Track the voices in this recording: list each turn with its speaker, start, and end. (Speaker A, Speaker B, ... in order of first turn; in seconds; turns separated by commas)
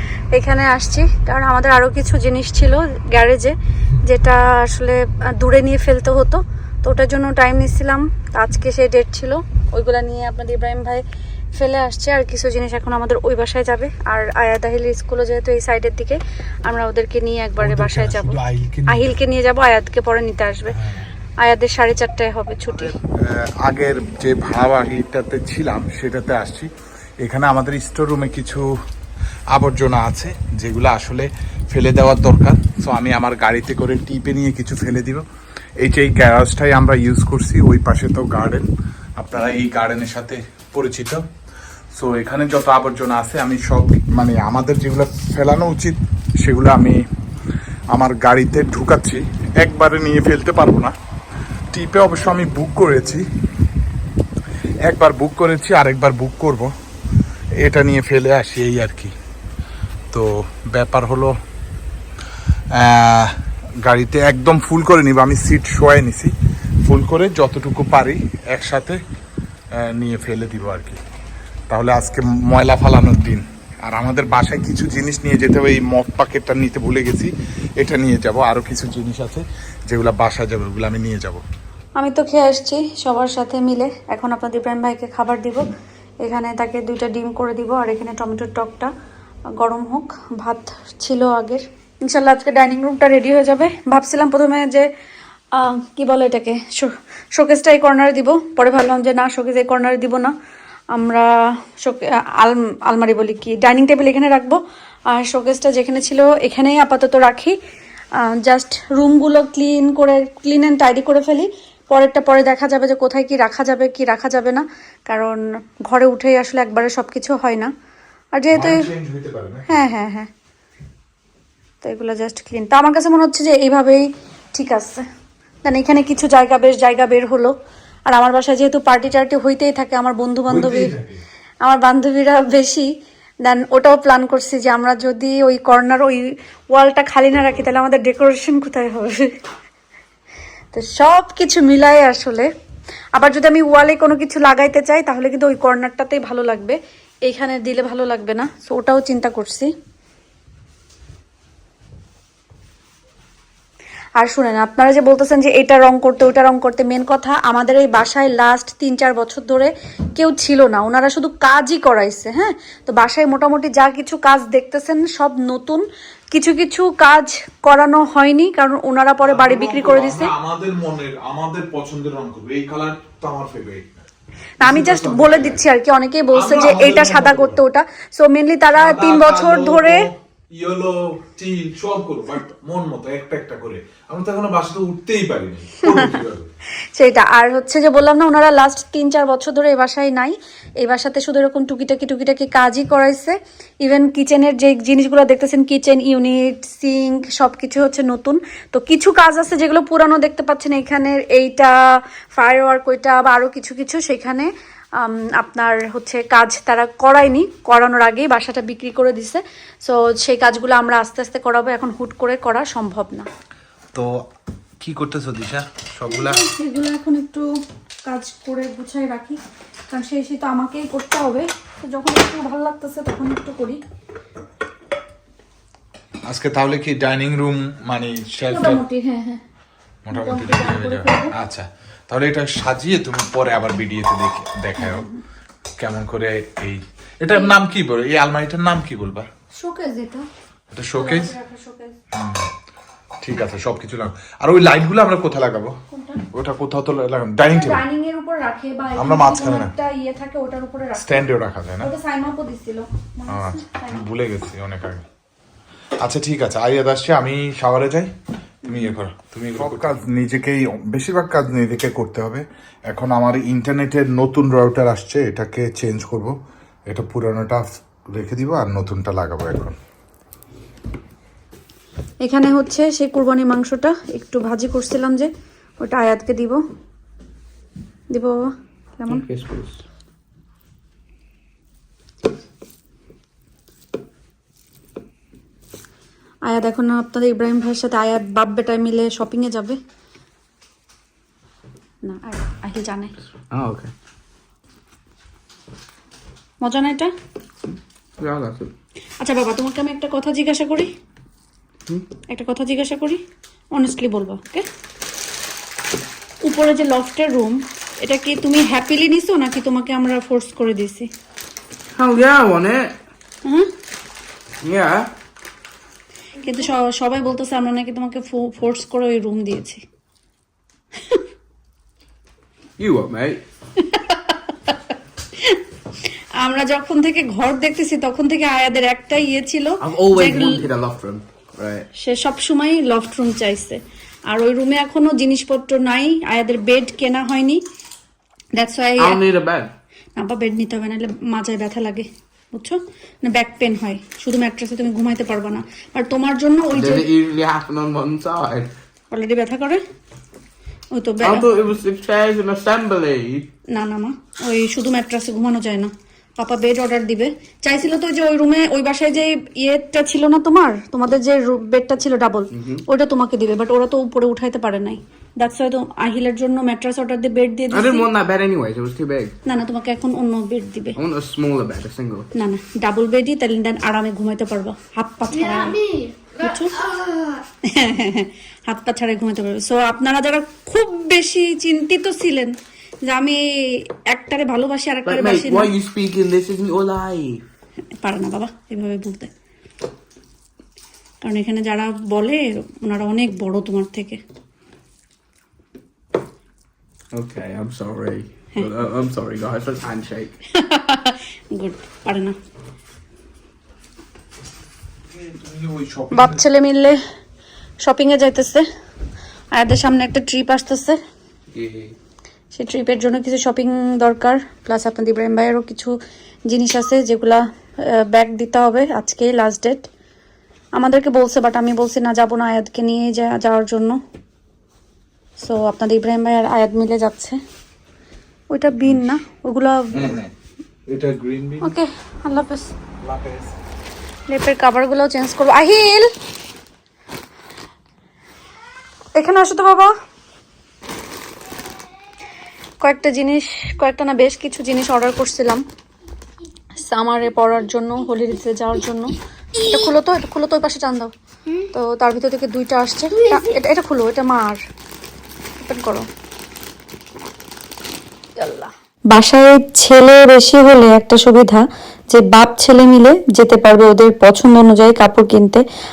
Speaker A: 0.3-11.0, Speaker A: 11.5-20.7, Speaker B: 17.6-19.1, Speaker B: 20.7-21.0, Speaker A: 21.4-23.0, Speaker B: 22.6-28.7, Speaker B: 29.5-35.2, Speaker B: 35.8-41.2, Speaker B: 42.0-47.0, Speaker B: 47.9-50.9, Speaker B: 51.7-53.2, Speaker B: 54.9-56.7, Speaker B: 57.6-59.1, Speaker B: 60.1-61.3, Speaker B: 62.7-66.3, Speaker B: 66.8-69.0, Speaker B: 69.8-71.0, Speaker B: 71.7-81.4, Speaker A: 82.0-85.7, Speaker A: 86.2-88.9, Speaker A: 89.6-94.9, Speaker A: 95.5-100.3, Speaker A: 100.9-101.3, Speaker A: 101.8-104.6, Speaker A: 105.1-107.5, Speaker A: 108.4-117.7, Speaker A: 118.3-118.9, Speaker B: 118.5-119.8, Speaker A: 119.7-120.3, Speaker A: 121.8-125.0, Speaker A: 125.6-127.5, Speaker A: 128.1-130.9, Speaker B: 130.5-131.2, Speaker A: 131.6-132.9, Speaker A: 133.4-139.3, Speaker A: 140.7-142.5, Speaker A: 143.1-149.7, Speaker A: 154.2-170.3, Speaker B: 169.2-173.8, Speaker A: 174.6-180.1, Speaker B: 174.6-175.6, Speaker B: 176.3-177.6, Speaker B: 178.7-186.5, Speaker A: 185.8-186.1, Speaker A: 186.9-201.7, Speaker A: 202.3-213.3, Speaker B: 213.9-214.2, Speaker B: 214.8-216.4, Speaker A: 216.1-217.5, Speaker A: 218.1-223.8, Speaker B: 226.3-228.8, Speaker A: 228.5-229.4, Speaker B: 230.1-235.1, Speaker A: 230.1-231.3, Speaker A: 234.8-235.2, Speaker B: 235.8-239.3, Speaker A: 237.3-237.6, Speaker A: 239.5-240.3, Speaker B: 240.7-241.3, Speaker A: 240.9-242.0, Speaker B: 242.1-242.5, Speaker B: 243.2-245.7, Speaker A: 245.9-246.2, Speaker B: 246.3-247.8, Speaker A: 247.4-254.0, Speaker B: 248.9-249.7, Speaker B: 251.0-251.9, Speaker B: 253.3-255.0, Speaker B: 256.0-258.1, Speaker B: 258.6-266.3, Speaker B: 266.9-269.7, Speaker A: 272.2-275.3, Speaker A: 275.8-276.6, Speaker A: 279.0-279.3, Speaker C: 279.1-279.8, Speaker A: 286.4-289.8, Speaker A: 292.0-293.1, Speaker C: 293.5-293.9, Speaker A: 296.6-297.1, Speaker C: 298.2-298.7, Speaker A: 299.2-300.9, Speaker A: 302.3-303.2, Speaker A: 303.7-304.6, Speaker A: 306.4-311.1, Speaker C: 311.9-312.9, Speaker C: 314.6-315.1, Speaker A: 316.4-319.8, Speaker C: 322.8-323.4, Speaker A: 323.8-324.8, Speaker A: 326.4-330.6, Speaker C: 329.8-331.9, Speaker A: 331.9-337.6, Speaker A: 338.6-339.2, Speaker C: 339.0-339.7, Speaker A: 340.1-347.1, Speaker C: 346.7-348.7, Speaker A: 349.1-349.8, Speaker A: 350.9-351.5, Speaker C: 351.2-353.5, Speaker A: 353.7-368.1, Speaker C: 362.5-362.8, Speaker C: 367.7-369.3, Speaker A: 369.4-370.9, Speaker C: 371.0-372.3, Speaker A: 372.3-376.7, Speaker A: 377.7-382.5, Speaker A: 383.0-385.7, Speaker C: 385.0-387.4, Speaker A: 388.0-389.3, Speaker A: 391.2-394.2, Speaker C: 397.1-400.3, Speaker A: 400.5-402.3, Speaker B: 405.1-406.4, Speaker A: 406.1-407.0, Speaker A: 407.8-408.6, Speaker A: 409.5-411.0, Speaker C: 411.5-411.9, Speaker A: 412.5-415.9, Speaker A: 416.5-419.9, Speaker A: 420.8-424.0, Speaker A: 425.4-427.4, Speaker A: 428.5-430.2, Speaker B: 429.9-430.3, Speaker B: 430.9-431.7, Speaker A: 431.6-432.7, Speaker B: 433.0-433.5, Speaker A: 434.3-436.1, Speaker A: 439.1-439.9, Speaker A: 442.8-445.6, Speaker A: 446.8-451.1, Speaker A: 451.7-454.6, Speaker A: 455.6-456.1, Speaker A: 458.4-465.6